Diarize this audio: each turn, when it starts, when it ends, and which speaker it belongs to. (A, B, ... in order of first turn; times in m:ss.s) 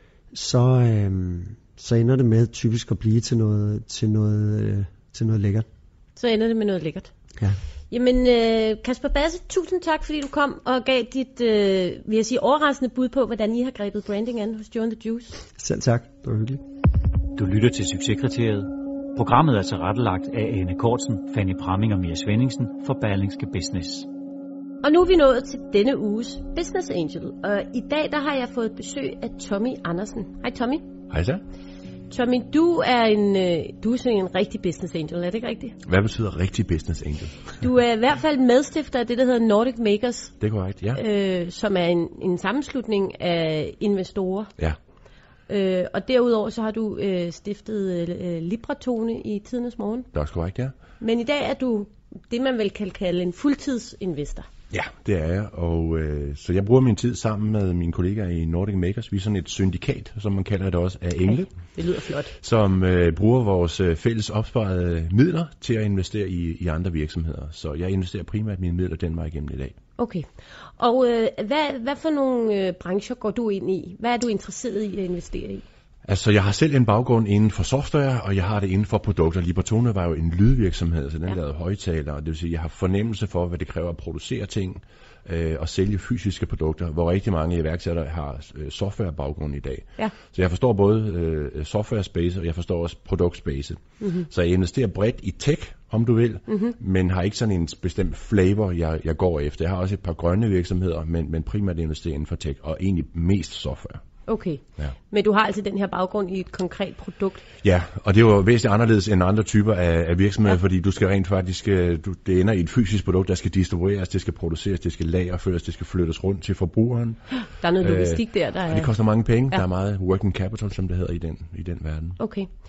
0:00.3-0:05.7 A
0:06.2-0:07.1 B
0:07.9-0:15.4 B
0:15.6-0:16.6 A
0:17.4-0:24.1 C
0:24.8-0:30.8 B
0:31.1-0:31.4 D
0:32.1-0:35.8 B
0:35.9-0:37.6 D
0:37.6-0:40.3 B
0:40.4-0:41.0 D
0:41.0-0:44.5 B
0:45.5-0:50.1 B
0:50.1-0:50.7 D
0:51.0-0:54.5 B
0:54.7-1:01.5 D
1:01.3-1:02.3 B
1:02.4-1:09.8 D
1:10.0-1:10.3 B
1:10.8-1:15.6 B
1:16.1-1:44.0 D
1:36.5-1:36.7 B
1:44.3-1:47.5 B
1:47.6-1:57.2 D
1:57.6-1:58.9 B
1:57.8-2:02.2 D
2:02.2-2:02.5 B